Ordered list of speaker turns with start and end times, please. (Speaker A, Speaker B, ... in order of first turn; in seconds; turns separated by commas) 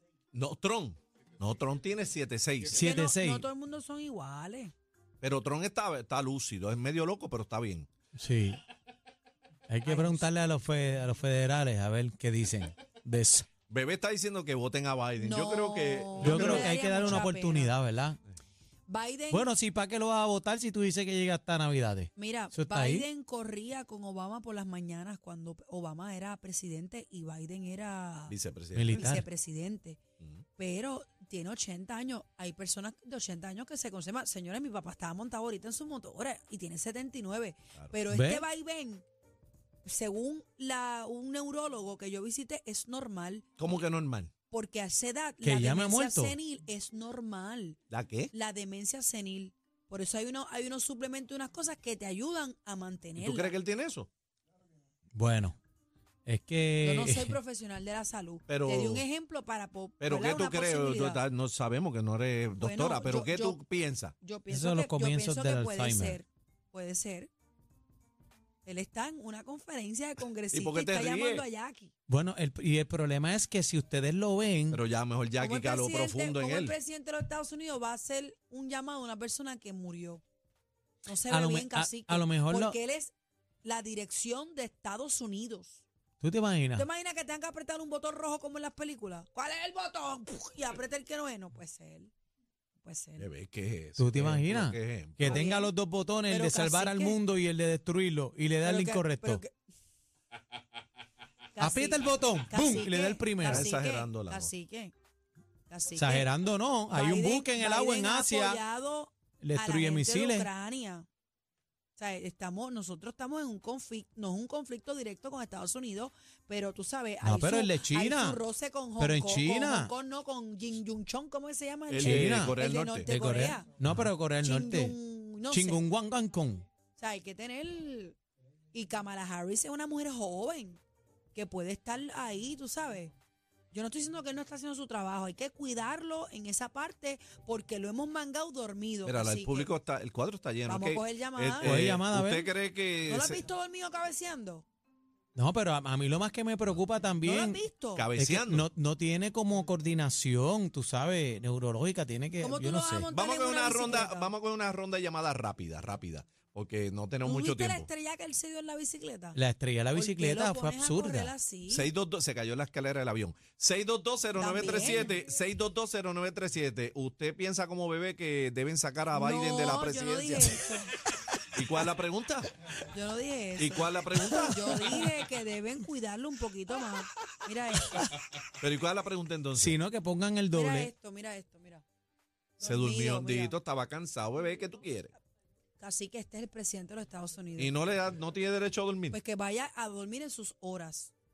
Speaker A: 0.3-2.9, Speaker B: 2.7-3.5, Speaker C: 2.7-4.7, Speaker A: 5.2-7.9, Speaker B: 8.2-8.6, Speaker B: 9.7-13.5, Speaker C: 9.9-10.2, Speaker A: 13.7-16.8, Speaker C: 15.2-17.8, Speaker B: 16.2-18.2, Speaker C: 18.9-19.5, Speaker B: 19.3-23.1, Speaker C: 22.2-28.4, Speaker A: 28.3-29.1, Speaker B: 28.7-29.3, Speaker C: 28.9-30.0, Speaker A: 30.2-30.4, Speaker C: 30.6-39.0, Speaker B: 38.1-38.4, Speaker C: 39.8-43.5, Speaker A: 43.6-44.3, Speaker C: 44.5-47.8, Speaker B: 45.4-46.4, Speaker A: 47.9-48.3, Speaker C: 48.3-53.6, Speaker A: 53.2-54.1, Speaker B: 55.1-55.6, Speaker B: 56.3-57.4, Speaker C: 56.8-61.2, Speaker A: 58.5-59.1, Speaker A: 60.0-64.2, Speaker C: 62.6-63.6, Speaker C: 64.2-67.3, Speaker B: 64.5-66.2, Speaker C: 68.7-71.9, Speaker A: 70.5-71.5, Speaker B: 72.1-74.8, Speaker A: 74.7-76.8, Speaker C: 75.4-80.2, Speaker C: 81.1-85.8, Speaker B: 81.3-82.8, Speaker B: 86.2-86.9, Speaker C: 86.8-92.1, Speaker C: 92.8-93.3, Speaker A: 93.2-95.4, Speaker B: 94.0-99.4, Speaker C: 95.3-95.8, Speaker C: 96.3-97.2, Speaker C: 98.6-99.5, Speaker C: 101.6-104.9, Speaker B: 101.6-103.7, Speaker A: 103.5-104.5, Speaker C: 105.7-106.3, Speaker B: 106.0-108.6, Speaker C: 106.9-111.1, Speaker B: 109.4-110.5, Speaker C: 112.0-123.7, Speaker B: 117.2-118.4, Speaker B: 119.0-119.9, Speaker A: 121.9-123.1, Speaker B: 122.0-125.0, Speaker C: 124.4-125.8, Speaker B: 125.5-126.7, Speaker C: 127.0-128.2, Speaker C: 128.7-130.8, Speaker C: 131.3-133.1, Speaker C: 133.7-139.7, Speaker A: 139.1-143.4, Speaker C: 140.7-141.8, Speaker B: 141.6-142.5, Speaker C: 143.0-144.7, Speaker B: 145.3-147.6, Speaker C: 147.2-148.1, Speaker A: 148.0-148.7, Speaker B: 148.1-153.1, Speaker C: 152.4-154.3, Speaker A: 153.1-157.9, Speaker C: 157.2-159.4, Speaker B: 159.3-161.3, Speaker C: 159.9-161.9, Speaker A: 161.7-170.6, Speaker C: 164.4-165.1, Speaker C: 169.1-170.9, Speaker A: 171.5-172.5, Speaker C: 172.9-178.0, Speaker A: 173.6-175.1, Speaker A: 178.6-179.8, Speaker B: 179.6-180.9, Speaker C: 180.5-181.8, Speaker C: 182.6-183.6, Speaker A: 182.6-185.1, Speaker C: 185.8-187.8, Speaker A: 187.6-189.2, Speaker C: 189.1-191.1